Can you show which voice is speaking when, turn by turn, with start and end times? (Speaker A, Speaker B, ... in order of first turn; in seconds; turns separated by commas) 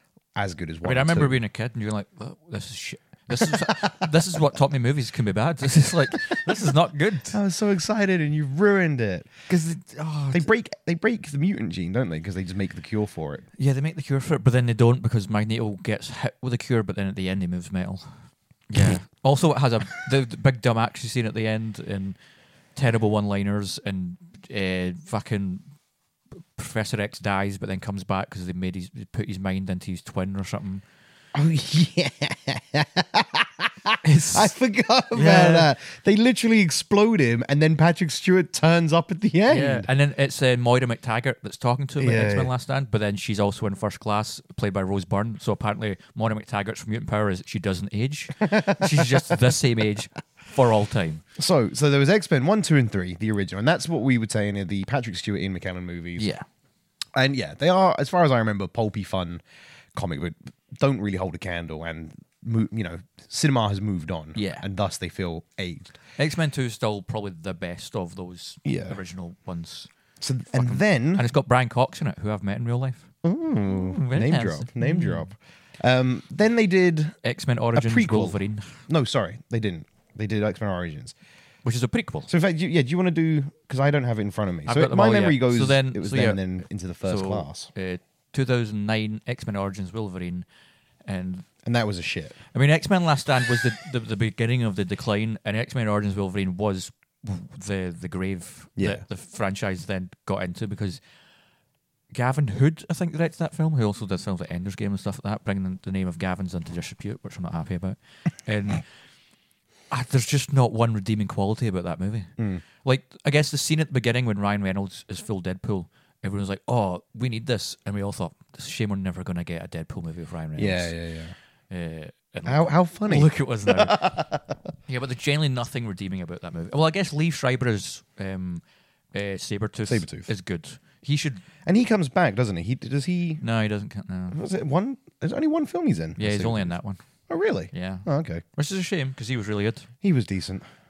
Speaker A: 0.3-1.4, Speaker B: 0.8-7.4, Speaker A: 3.4-4.0, Speaker A: 7.3-9.3, Speaker B: 9.5-10.5, Speaker A: 10.3-13.4, Speaker B: 13.6-22.1, Speaker B: 22.7-25.7, Speaker B: 26.5-30.8, Speaker A: 31.3-39.9, Speaker B: 34.0-34.5, Speaker B: 35.1-35.7, Speaker B: 39.5-51.2, Speaker A: 42.0-42.5, Speaker A: 48.4-49.3, Speaker A: 51.4-56.3, Speaker B: 56.2-56.5, Speaker A: 57.1-59.4, Speaker A: 59.9-66.0, Speaker B: 64.3-64.6, Speaker B: 66.2-69.9, Speaker A: 68.6-69.0, Speaker A: 70.2-71.2, Speaker B: 70.5-73.1, Speaker A: 73.2-77.2, Speaker B: 73.7-75.3, Speaker B: 77.2-78.8, Speaker A: 77.7-81.1, Speaker B: 81.6-82.3, Speaker A: 82.3-87.7, Speaker B: 84.7-86.4, Speaker B: 87.0-90.4, Speaker B: 91.0-91.5, Speaker A: 91.6-92.4, Speaker B: 92.5-101.0, Speaker A: 98.8-99.0, Speaker B: 102.1-108.9, Speaker B: 109.9-120.9, Speaker A: 112.4-112.6, Speaker A: 120.5-121.3, Speaker B: 121.7-124.2, Speaker A: 122.5-124.5, Speaker B: 124.9-131.4, Speaker A: 129.8-130.3, Speaker A: 131.6-133.4, Speaker B: 133.4-134.4, Speaker A: 134.3-136.8, Speaker B: 136.2-137.0, Speaker A: 137.3-138.4, Speaker B: 137.7-139.9, Speaker A: 140.0-140.7